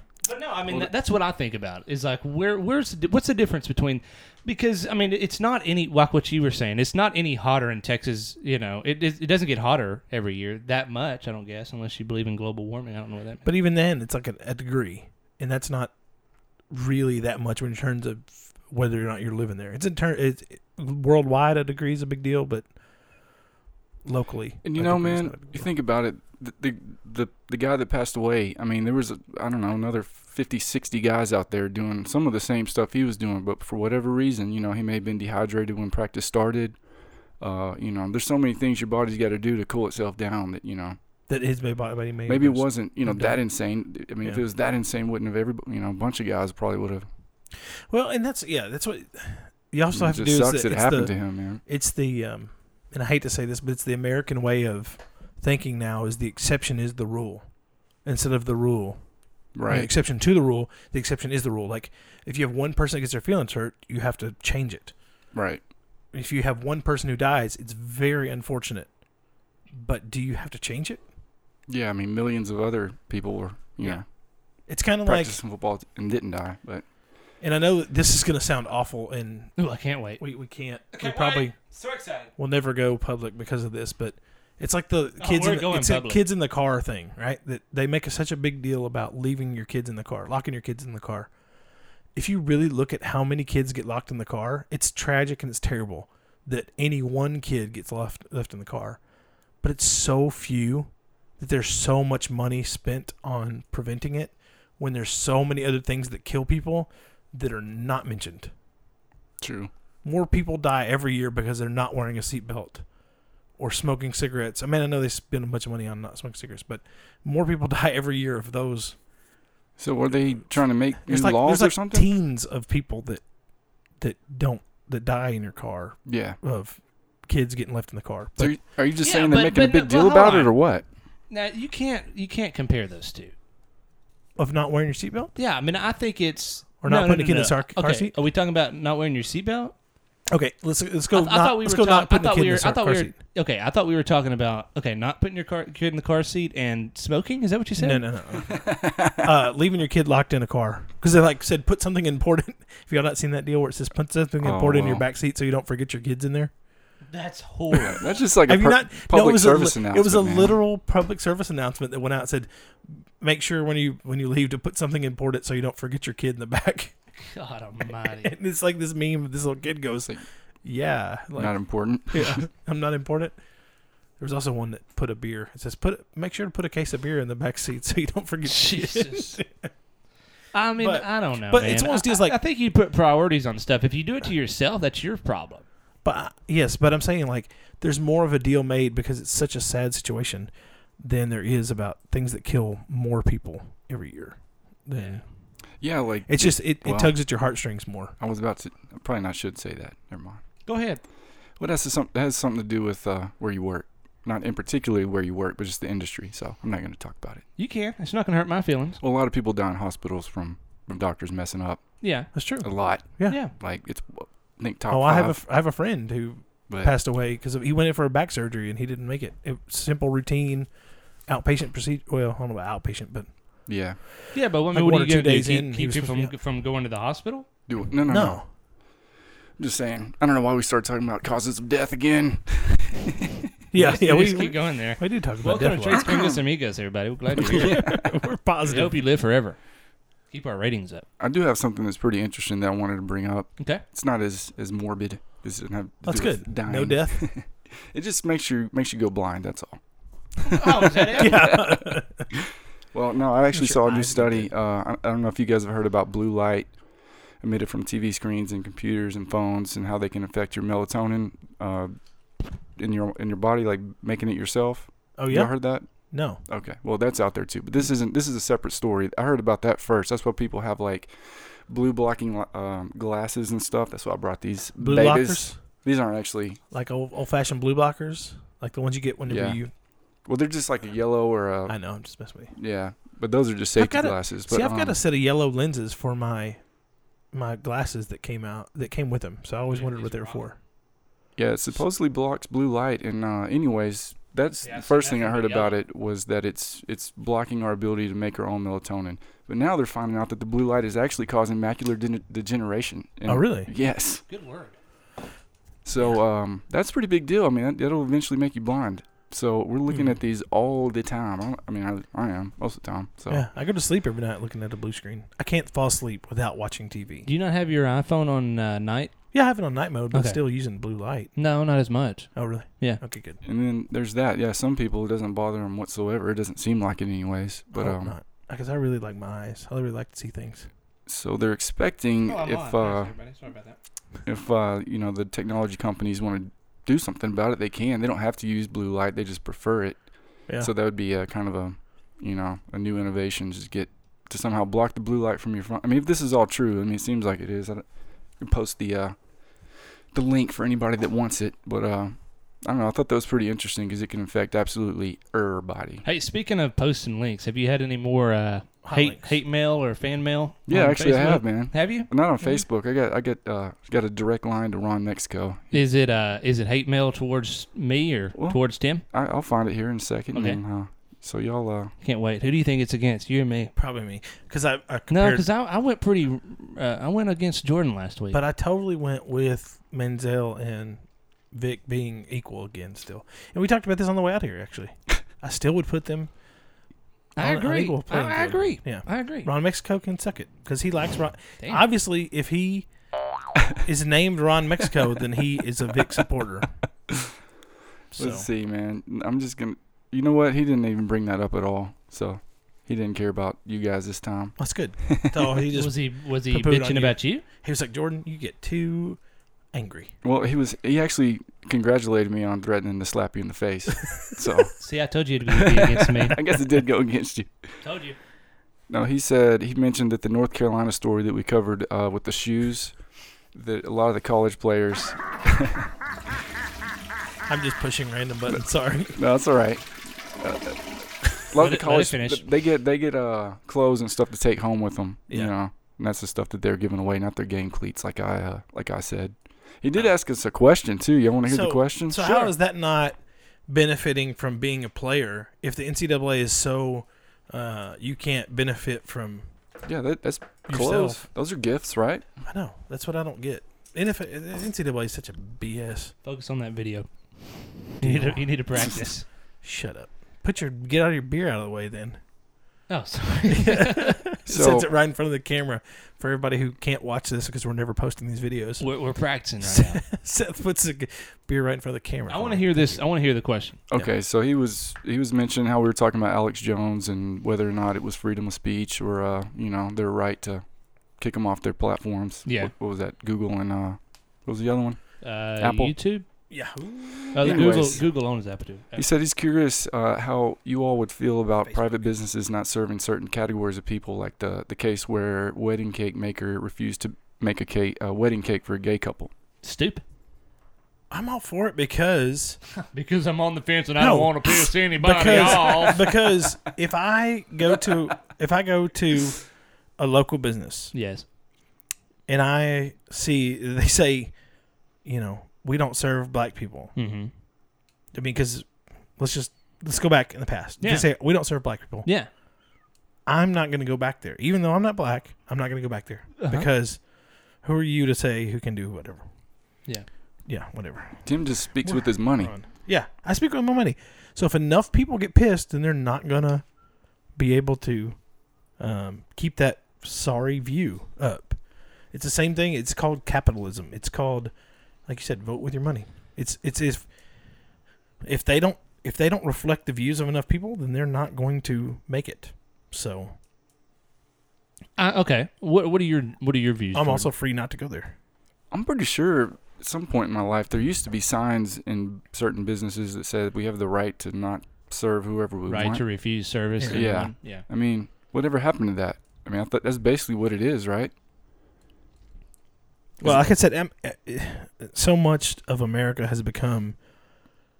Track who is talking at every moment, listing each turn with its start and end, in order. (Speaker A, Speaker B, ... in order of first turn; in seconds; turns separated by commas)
Speaker A: 0.2-13.5, Speaker B: 13.4-15.9, Speaker B: 16.7-23.3, Speaker B: 24.0-25.7, Speaker C: 24.6-36.8, Speaker C: 37.4-41.0, Speaker B: 41.3-43.4, Speaker C: 42.3-47.1, Speaker B: 44.0-44.4, Speaker B: 47.9-65.0, Speaker C: 49.9-51.6, Speaker C: 59.5-59.9, Speaker C: 65.3-65.6, Speaker B: 66.1-69.0, Speaker B: 69.7-71.0, Speaker C: 71.7-74.0, Speaker B: 74.6-75.4, Speaker C: 75.0-76.8, Speaker B: 77.4-81.6, Speaker A: 79.6-80.2, Speaker A: 80.9-82.3, Speaker B: 82.4-91.3, Speaker A: 85.2-86.2, Speaker B: 92.1-99.0, Speaker B: 99.6-108.5, Speaker C: 109.4-109.7, Speaker B: 110.0-112.9, Speaker B: 113.6-119.0, Speaker C: 119.8-122.1, Speaker B: 121.0-123.2, Speaker B: 124.0-128.6, Speaker C: 126.1-126.4, Speaker C: 128.4-130.9, Speaker A: 129.0-130.6, Speaker A: 131.3-133.3, Speaker B: 134.4-135.3, Speaker A: 135.4-139.7, Speaker B: 136.8-138.2, Speaker B: 140.3-143.2, Speaker A: 141.1-148.0, Speaker B: 147.8-156.5, Speaker C: 148.5-149.3, Speaker C: 154.4-155.1, Speaker A: 157.1-158.0, Speaker C: 157.9-160.6, Speaker B: 158.4-162.5, Speaker B: 163.2-166.9, Speaker A: 167.2-168.3, Speaker B: 167.9-173.4, Speaker C: 171.4-172.4, Speaker B: 174.2-179.7, Speaker A: 178.4-179.4, Speaker A: 180.5-185.6, Speaker B: 180.8-182.4, Speaker B: 186.0-195.2, Speaker A: 195.0-195.2, Speaker C: 195.8-197.2, Speaker B: 196.3-198.1, Speaker C: 198.2-200.4, Speaker A: 200.7-201.0, Speaker C: 201.6-207.4, Speaker A: 207.6-209.0, Speaker C: 209.0-215.4, Speaker A: 212.0-212.3, Speaker B: 212.3-213.4, Speaker A: 213.3-213.5, Speaker B: 214.9-220.7, Speaker C: 216.7-216.9, Speaker B: 221.3-223.3, Speaker C: 223.7-224.0, Speaker A: 224.3-227.5, Speaker B: 224.7-226.3, Speaker C: 227.7-228.4, Speaker B: 228.1-228.5, Speaker C: 229.6-233.4, Speaker B: 233.7-236.1, Speaker A: 233.7-237.8, Speaker C: 235.9-236.4, Speaker C: 237.4-238.1, Speaker B: 237.4-239.0, Speaker A: 238.7-239.6, Speaker A: 240.3-241.1, Speaker C: 241.2-249.8, Speaker B: 246.0-247.3, Speaker C: 250.4-252.0, Speaker A: 250.5-251.4, Speaker B: 251.2-252.3, Speaker C: 252.9-276.6, Speaker B: 253.5-254.5, Speaker B: 265.2-266.4, Speaker B: 274.8-275.6, Speaker B: 276.7-279.7, Speaker C: 279.3-279.6, Speaker C: 280.1-281.8, Speaker B: 281.7-282.5, Speaker C: 282.5-285.0, Speaker B: 283.8-286.6, Speaker B: 287.3-290.6, Speaker A: 289.7-290.5, Speaker C: 291.4-304.2, Speaker A: 294.6-295.8, Speaker B: 303.3-303.7, Speaker A: 304.3-304.7, Speaker C: 305.9-313.4, Speaker B: 313.3-317.3, Speaker A: 317.2-319.1, Speaker B: 319.3-321.4, Speaker A: 320.1-320.4, Speaker A: 321.4-323.0, Speaker B: 322.4-323.4, Speaker C: 323.4-328.1, Speaker B: 327.7-330.7, Speaker C: 331.1-333.1, Speaker A: 332.2-333.8, Speaker C: 334.2-356.1, Speaker A: 356.1-362.1, Speaker B: 358.8-359.4, Speaker C: 360.7-365.8, Speaker A: 365.7-369.0, Speaker C: 368.4-371.9, Speaker A: 370.3-370.6, Speaker A: 372.0-373.7, Speaker B: 373.8-375.4, Speaker A: 375.1-378.4, Speaker B: 378.3-386.3, Speaker A: 387.4-389.5, Speaker B: 387.4-392.9, Speaker B: 393.8-396.7, Speaker B: 398.1-398.5, Speaker C: 398.2-405.5, Speaker B: 404.6-409.2, Speaker A: 405.7-407.4, Speaker B: 409.7-410.1, Speaker C: 410.2-414.8, Speaker A: 414.8-416.4, Speaker C: 415.5-417.7, Speaker A: 417.8-418.2, Speaker C: 418.9-423.0, Speaker C: 423.5-425.9, Speaker B: 427.5-429.2, Speaker C: 429.1-442.4, Speaker A: 431.6-432.4, Speaker B: 441.4-449.4, Speaker C: 449.9-452.3, Speaker B: 450.7-451.2, Speaker B: 452.4-456.1, Speaker A: 456.2-459.2, Speaker B: 458.0-458.5, Speaker B: 459.6-462.2, Speaker A: 462.9-464.2, Speaker B: 463.5-473.0, Speaker C: 464.4-464.9, Speaker A: 468.8-470.0, Speaker A: 472.3-473.8, Speaker C: 473.9-480.6, Speaker C: 481.2-485.9, Speaker A: 482.4-482.7, Speaker A: 485.2-486.2, Speaker B: 486.5-488.1, Speaker A: 487.3-489.1, Speaker C: 487.4-488.2, Speaker C: 488.9-499.3, Speaker B: 491.6-492.1, Speaker A: 499.6-500.0, Speaker B: 501.1-502.6, Speaker A: 502.9-506.1, Speaker B: 504.0-510.9, Speaker C: 505.3-505.9, Speaker A: 510.9-511.2, Speaker B: 512.3-514.4, Speaker B: 515.0-517.0, Speaker A: 517.0-517.3, Speaker B: 518.1-522.1, Speaker A: 520.8-521.1, Speaker B: 523.3-529.2, Speaker A: 526.4-526.7, Speaker B: 530.5-547.6, Speaker C: 531.2-532.5, Speaker B: 548.2-553.3, Speaker A: 555.0-557.3, Speaker B: 556.9-558.1, Speaker C: 558.7-566.2, Speaker A: 565.7-567.6, Speaker C: 566.9-571.1, Speaker B: 573.2-577.0, Speaker C: 573.2-573.5